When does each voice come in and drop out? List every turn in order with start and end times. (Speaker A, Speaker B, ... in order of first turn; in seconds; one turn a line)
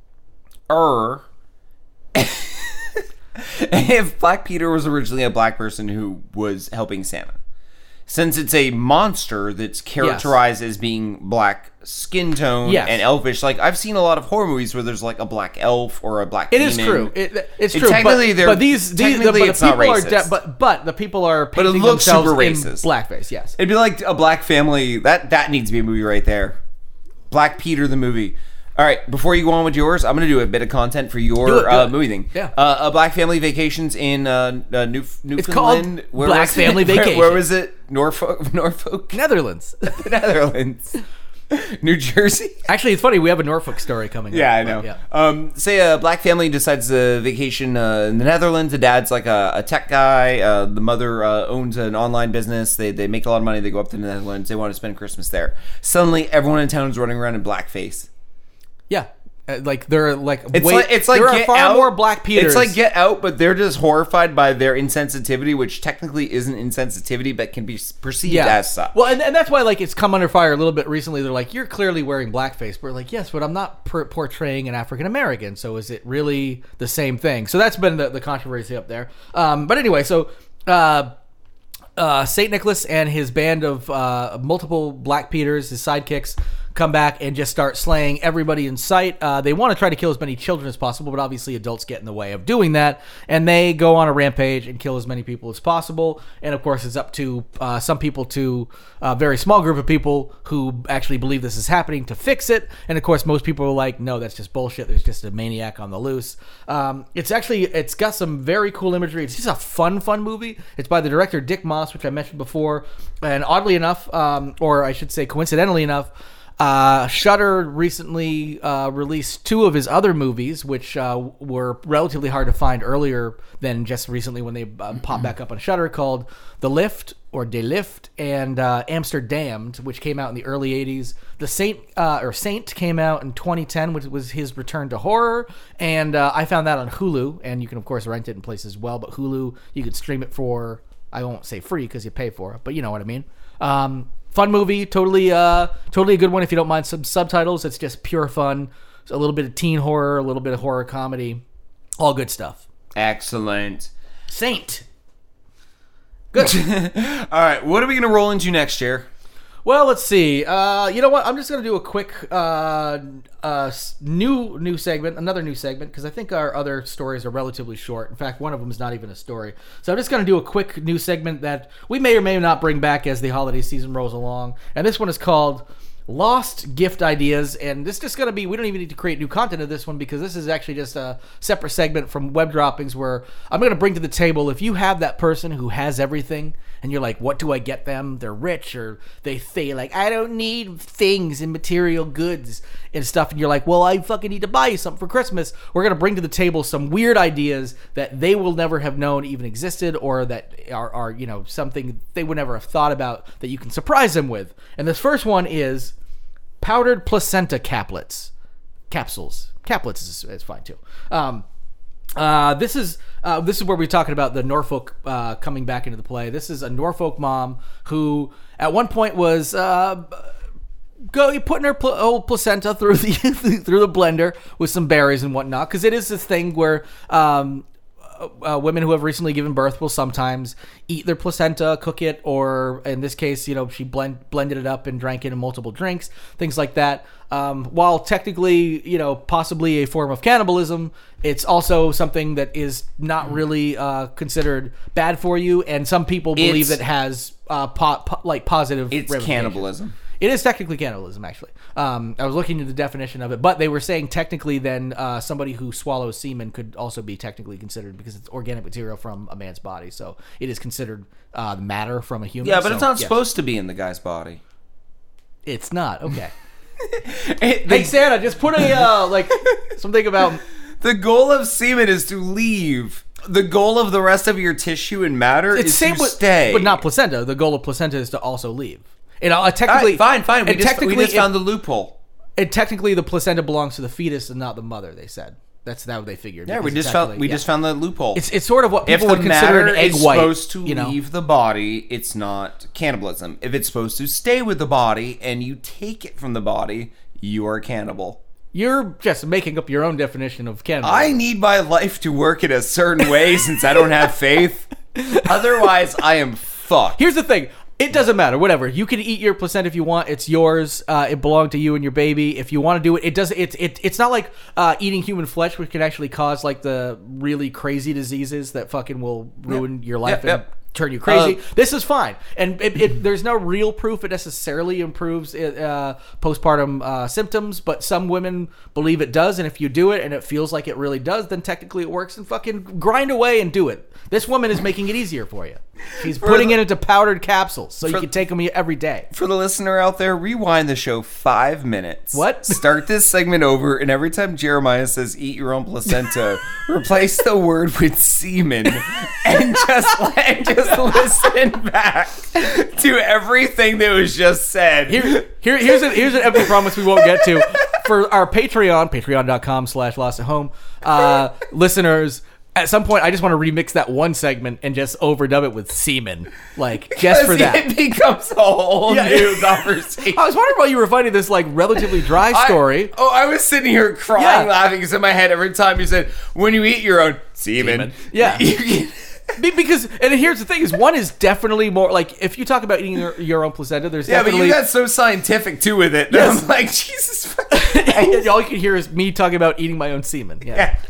Speaker A: 0.7-1.2
Speaker A: 2.1-7.4
Speaker A: 8.1-17.1
Speaker B: 10.0-10.3
Speaker B: 12.6-13.0
Speaker B: 16.5-23.6
Speaker A: 17.7-20.3
Speaker A: 21.6-22.9
Speaker A: 23.6-26.6
Speaker A: 27.3-39.2
Speaker B: 31.4-32.5
Speaker B: 35.4-37.4
Speaker B: 39.1-40.0
Speaker A: 39.9-41.0
Speaker A: 41.5-42.6
Speaker B: 42.7-45.0
Speaker A: 44.3-58.1
Speaker B: 58.9-62.8
Speaker A: 60.5-68.9
Speaker B: 68.2-81.1
Speaker B: 82.0-151.4
Speaker B: 152.0-152.6
Speaker A: 152.9-153.9
Speaker B: 154.3-154.8
Speaker B: 156.3-156.6
Speaker A: 156.3-159.1
Speaker B: 159.6-205.9
Speaker B: 206.6-208.3
Speaker B: 208.9-211.4
Speaker B: 212.2-220.3
Speaker B: 221.1-263.2
Speaker A: 246.3-246.8
Speaker A: 248.9-249.9
Speaker A: 262.4-264.4
Speaker B: 265.4-266.3
Speaker A: 266.8-269.5
Speaker B: 267.7-270.4
Speaker A: 270.8-276.8
Speaker B: 275.5-281.3
Speaker A: 279.6-281.9
Speaker B: 282.4-287.4
Speaker A: 286.4-288.2
Speaker B: 288.1-290.9
Speaker A: 288.9-298.2
Speaker B: 298.5-301.1
Speaker A: 300.8-307.0
Speaker B: 305.0-305.3
Speaker B: 307.0-339.1
Speaker A: 319.5-320.4
Speaker A: 321.0-321.4
Speaker A: 336.0-336.6
Speaker A: 339.1-357.7
Speaker B: 342.1-342.6
Speaker B: 354.9-367.6
Speaker A: 366.9-370.2
Speaker B: 368.9-372.9
Speaker A: 372.0-379.3
Speaker B: 374.1-374.5
Speaker B: 377.6-378.5
Speaker B: 379.4-384.6
Speaker A: 384.1-388.3
Speaker B: 386.1-386.4
Speaker B: 387.5-390.7